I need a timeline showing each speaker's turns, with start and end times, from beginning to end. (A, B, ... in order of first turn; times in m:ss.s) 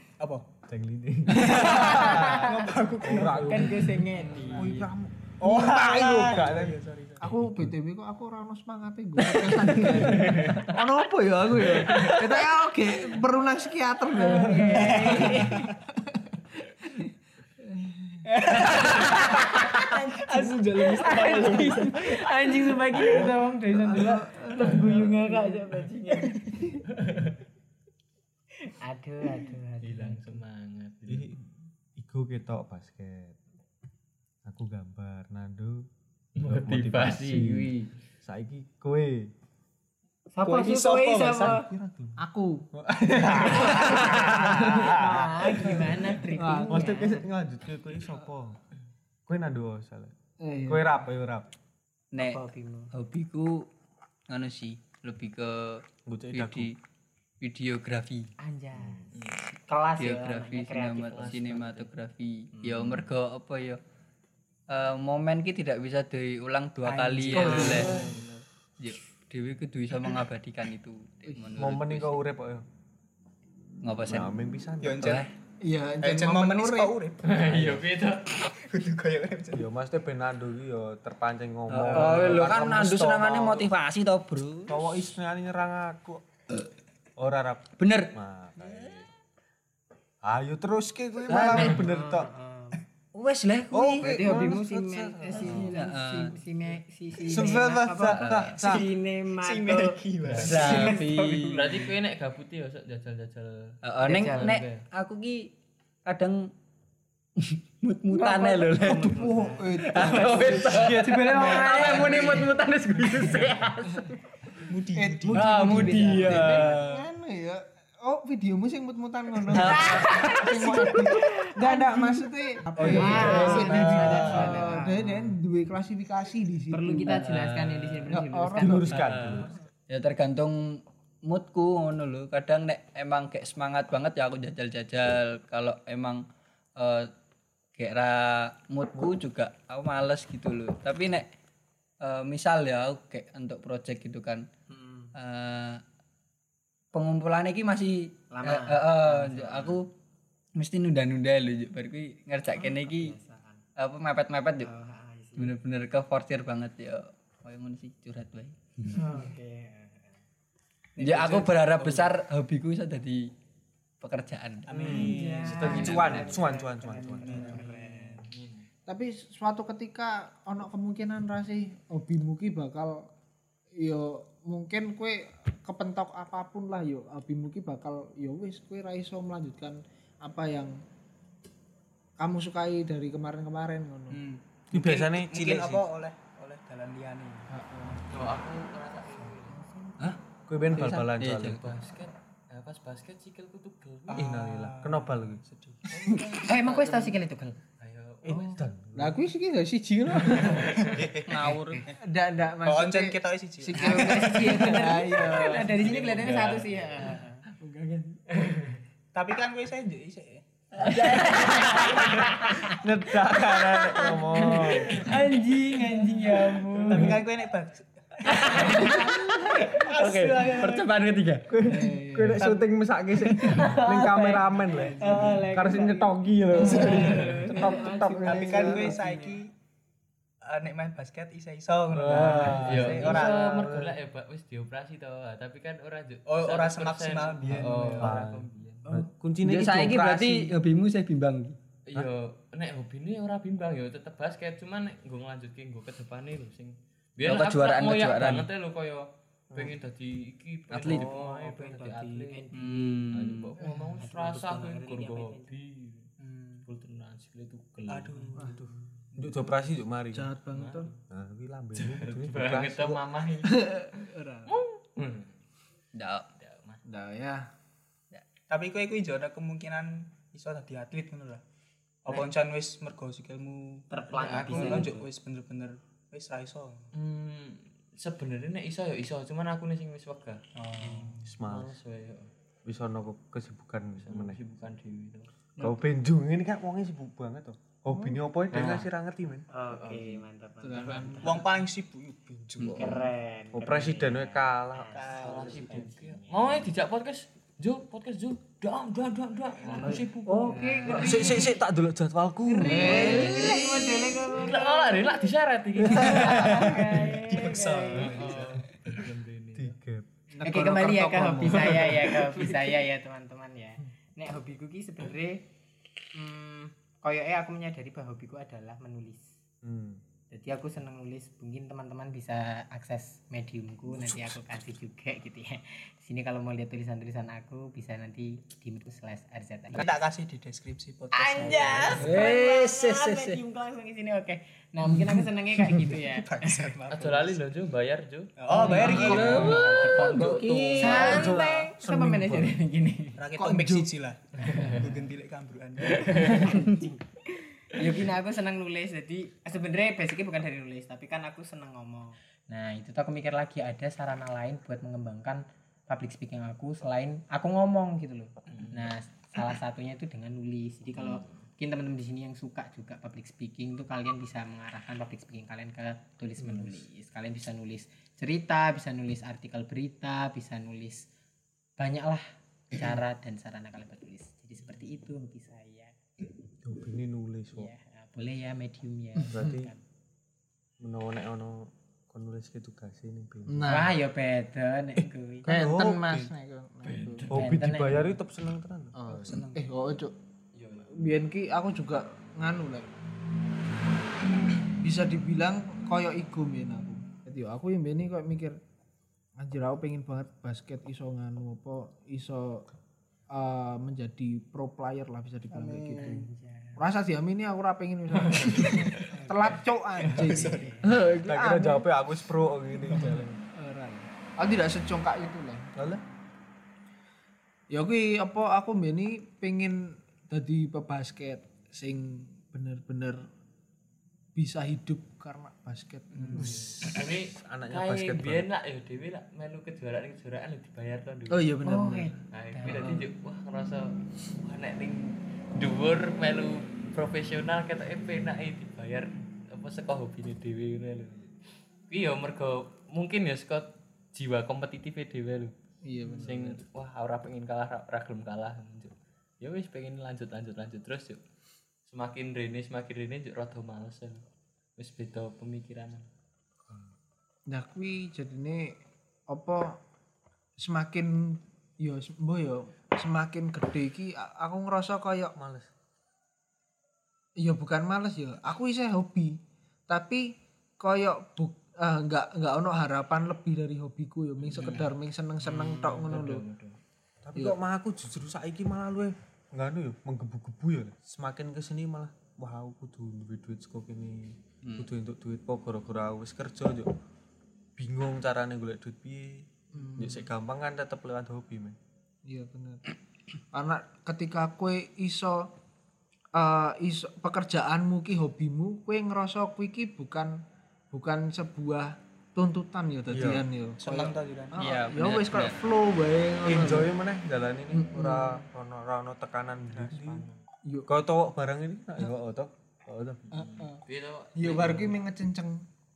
0:00.2-0:00.5 A
0:00.6-0:02.5 B
0:01.4-0:02.6 C
0:01.5-0:04.7 A
0:03.0-0:07.7 B
0:03.4-0:04.7 C
0:05.4-0:07.2 A
0:05.5-0:05.8 D
0:07.2-0:15.7 D
0:10.1-0:10.6 E
0:14.1-0:15.7 C
0:15.1-0:15.4 A
0:17.6-0:18.2 D
0:18.3-0:19.4 A
0:18.5-0:26.8 C
0:20.1-0:23.2 A
0:23.7-0:25.1 D
0:26.9-0:27.3 E
0:28.6-0:30.4 C
0:29.8-0:31.3 E
0:31.1-0:31.4 B
0:32.0-0:33.4 B
0:34.4-0:35.9 B
0:36.4-0:37.9 E
0:36.4-0:39.3 B
0:40.3-0:41.6 C
0:40.4-0:41.7 A
0:41.7-0:42.1 B
0:42.2-0:42.7 D
0:42.7-0:46.0 B
0:43.0-0:43.8 A
0:43.4-0:45.0 D
0:43.6-0:47.3 C
0:46.3-0:46.9 D
0:46.7-0:48.6 B
0:49.3-0:50.1 B
0:50.4-0:51.0 D
0:50.6-0:51.5 B
0:52.1-0:53.7 F
0:52.2-0:52.9 C
0:54.3-0:56.7 F
0:56.0-0:56.7 B
0:57.4-0:58.3 F
0:58.4-1:01.5 C
0:59.1-0:59.5 E
1:00.0-1:03.8 F
1:01.1-1:01.9 E
1:04.7-1:08.0 F
1:06.9-1:08.1 C
1:07.3-1:08.0 A
1:07.3-1:08.3 D
1:07.4-1:08.2 E
1:08.8-1:12.2 F
1:11.5-1:12.6 B
1:13.8-1:14.3 F
1:14.0-1:15.1 B
1:14.8-1:15.2 A
1:15.0-1:15.3 F
1:15.6-1:16.9 D
1:16.0-1:17.4 A
1:17.2-1:18.5 E
1:17.4-1:17.9 B
1:18.5-1:19.7 A
1:19.5-1:23.7 B
1:21.7-1:24.8 F
1:21.9-1:22.2 A
1:24.7-1:26.2 B
1:27.2-1:29.1 B
1:27.8-1:28.1 F
1:30.2-1:32.3 B
1:31.3-1:31.8 F
1:31.5-1:32.8 C
1:33.1-1:34.1 F
1:33.7-1:35.8 B
1:34.0-1:40.0 C
1:35.4-1:36.4 F
1:37.2-1:38.9 B
1:38.0-1:38.6 F
1:38.7-1:41.8 A
1:40.2-1:44.8 E
1:40.4-1:41.8 F
1:40.5-1:41.1 C
1:43.8-1:45.5 F
1:44.0-1:44.6 C
1:46.0-1:46.5 F
1:47.4-1:49.3 F
1:48.2-1:50.9 D
1:48.7-1:52.5 C
1:49.8-1:54.2 F
1:50.6-1:52.4 B
1:54.6-1:55.5 A
1:54.9-2:07.3 D
1:55.3-1:57.0 F
1:55.8-1:56.7 B
1:55.8-1:56.2 C
1:59.5-2:01.1 F
1:59.7-2:01.8 C
2:02.8-2:04.6 A
2:02.8-2:04.6 B
2:02.9-2:05.3 C
2:03.0-2:03.6 F
2:06.7-2:09.1 C
2:07.0-2:08.1 F
2:08.1-2:09.1 D
2:08.6-2:09.5 B
2:08.9-2:09.5 E
2:09.9-2:16.2 F
2:16.8-2:17.1 F
2:17.8-2:21.3 F
2:22.0-2:24.4 F
2:24.7-2:25.1 C
2:25.1-2:25.8 F
2:26.9-2:29.9 F
2:28.3-2:29.8 C
2:30.6-2:33.2 F
2:32.6-2:33.6 C
2:33.8-2:34.7 F
2:34.6-2:35.5 C
2:35.4-2:39.0 F
2:38.9-2:40.2 C
2:41.0-2:42.0 C
2:41.0-2:43.3 F
2:44.0-2:44.7 F
2:44.6-2:46.3 A
2:44.7-2:47.6 B
2:44.8-2:48.3 C
2:47.2-2:48.3 A
2:48.2-2:48.6 E
2:48.9-2:53.1 D
2:53.8-3:00.8 D
3:02.2-3:04.2 D
3:04.1-3:07.5 A
3:04.7-3:05.8 B
3:07.5-3:08.0 D
3:08.0-3:09.6 E
3:09.2-3:10.0 C
3:10.5-3:11.7 B
3:10.7-3:11.6 F
3:11.4-3:14.2 E
3:14.1-3:16.4 A
3:14.1-3:15.4 B
3:16.3-3:17.6 C
3:17.8-3:18.6 E
3:18.2-3:19.2 B
3:18.9-3:20.9 D
3:20.2-3:21.0 E
3:20.9-3:21.9 A
3:21.2-3:21.8 F
3:22.0-3:25.9 D
3:22.6-3:24.2 A
3:23.7-3:27.4 C
3:25.4-3:26.7 A
3:25.7-3:27.1 E
3:27.6-3:28.2 D
3:28.3-3:28.8 E
3:29.1-3:30.4 A
3:30.8-3:32.0 D
3:30.8-3:32.6 C
3:30.9-3:32.0 F
3:32.6-3:35.3 B
3:33.7-3:37.2 C
3:36.7-3:38.8 A
3:38.2-3:41.5 F
3:38.3-3:39.8 C
3:38.9-3:39.5 D
3:39.7-3:40.9 A
3:41.5-3:49.0 B
3:41.6-3:42.5 D
3:42.4-3:42.8 A
3:43.4-3:49.4 C
3:44.8-3:45.5 A
3:46.6-3:47.4 A
3:46.9-3:47.6 E
3:48.2-3:49.5 A
3:48.2-3:48.5 D
3:50.4-3:53.5 A
3:51.9-3:54.0 B
3:52.6-3:58.9 E
3:56.2-3:58.2 A
3:58.0-4:00.5 B
3:59.4-4:01.6 F
4:01.9-4:12.4 E
4:07.2-4:08.5 F
4:10.7-4:11.1 F
4:10.8-4:15.5 C
4:12.5-4:13.5 F
4:13.1-4:16.1 E
4:16.2-4:16.6 A
4:16.6-4:18.4 E
4:17.9-4:19.6 A
4:18.4-4:20.3 B
4:20.1-4:20.9 D
4:20.5-4:21.0 E
4:21.1-4:23.0 B
4:21.7-4:25.4 E
4:23.4-4:24.6 D
4:25.9-4:26.3 F
4:26.4-4:26.8 E
4:26.8-4:27.5 D
4:28.5-4:31.4 A
4:32.0-4:36.9 A
4:33.9-4:35.0 C
4:34.4-4:34.8 E
4:36.9-4:40.4 E
4:40.6-4:41.4 A
4:40.8-4:41.1 C
4:41.0-4:42.3 E
4:41.2-4:41.8 B
4:42.6-4:44.4 B
4:44.0-4:45.3 E
4:45.6-4:49.4 B
4:47.9-4:48.2 D
4:48.5-4:48.9 E
4:49.5-4:51.5 C
4:49.7-4:50.2 E
4:50.6-4:51.4 D
4:51.2-4:53.1 A
4:52.7-4:56.7 C
4:53.5-4:55.0 B
4:54.9-4:56.0 A
4:55.2-5:01.1 E
4:59.7-5:01.6 C
4:59.9-5:01.4 D
5:00.9-5:03.4 B
5:02.4-5:05.3 C
5:02.6-5:04.3 D
5:03.1-5:03.6 E
5:04.3-5:06.7 E
5:05.9-5:07.2 B
5:05.9-5:08.4 C
5:06.6-5:08.7 A
5:07.9-5:09.8 E
5:09.5-5:10.1 B
5:10.3-5:12.0 D
5:10.4-5:15.4 C
5:16.1-5:19.4 C
5:19.6-5:20.0 B
5:20.3-5:30.0 C
5:29.7-5:32.2 A
5:31.1-5:36.7 C
5:31.9-5:33.4 F
5:36.0-5:37.4 A
5:36.9-5:41.3 E
5:38.4-5:39.7 A
5:38.5-5:43.2 C
5:38.9-5:41.2 F
5:40.1-5:42.6 B
5:43.2-5:46.6 A
5:43.4-5:43.9 D
5:44.5-5:44.8 E
5:45.9-5:46.6 E
5:46.1-5:47.0 C
5:47.7-6:11.0 C
5:58.5-5:58.9 E
6:00.9-6:01.5 E
6:06.4-6:06.7 E
6:11.8-6:15.9 C
6:16.6-6:17.7 B
6:17.5-6:19.8 C
6:19.3-6:19.7 B
6:20.8-6:23.9 B
6:23.5-6:23.9 D
6:23.7-6:25.5 C
6:25.4-6:26.3 B
6:25.4-6:27.3 D
6:26.8-6:27.5 E
6:27.3-6:29.4 B
6:27.3-6:28.2 C
6:29.0-6:30.1 D
6:30.5-6:31.0 E
6:30.9-6:32.9 D
6:34.8-6:38.6 D
6:39.4-6:42.6 D
6:43.3-6:51.9 D
6:45.6-6:46.8 C
6:48.3-6:49.0 E
6:50.0-6:50.8 A
6:50.3-6:50.9 C
6:50.9-6:53.4 B
6:52.9-6:55.8 D
6:55.8-6:56.0 B
6:57.7-7:03.2 D
7:04.4-7:06.8 D
7:06.1-7:06.5 A
7:06.3-7:11.5 E
7:06.9-7:08.5 B
7:11.3-7:12.1 D
7:11.6-7:13.0 C
7:12.3-7:21.3 E
7:12.6-7:13.0 D
7:21.9-7:25.5 E
7:25.8-7:26.6 D
7:26.1-7:31.2 E
7:31.9-7:34.2 E
7:34.8-7:36.0 E
7:37.5-7:38.8 D
7:39.3-7:39.8 D
7:40.6-7:45.3 D
7:45.4-7:45.7 B
7:47.4-7:56.4 D
7:54.5-7:54.9 E
7:55.4-7:56.8 E
7:57.2-8:06.9 B
8:07.8-8:11.8 B
8:09.7-8:10.2 D
8:12.2-8:12.8 D
8:13.5-8:15.5 D
8:16.3-8:26.9 D
8:23.1-8:23.4 B
8:23.8-8:24.6 A
8:24.6-8:25.6 F
8:26.4-8:30.3 B
8:27.7-8:28.4 D
8:29.8-8:30.4 E
8:30.9-8:33.3 B
8:33.3-8:35.0 E
8:33.3-8:33.8 D
8:34.4-8:35.7 D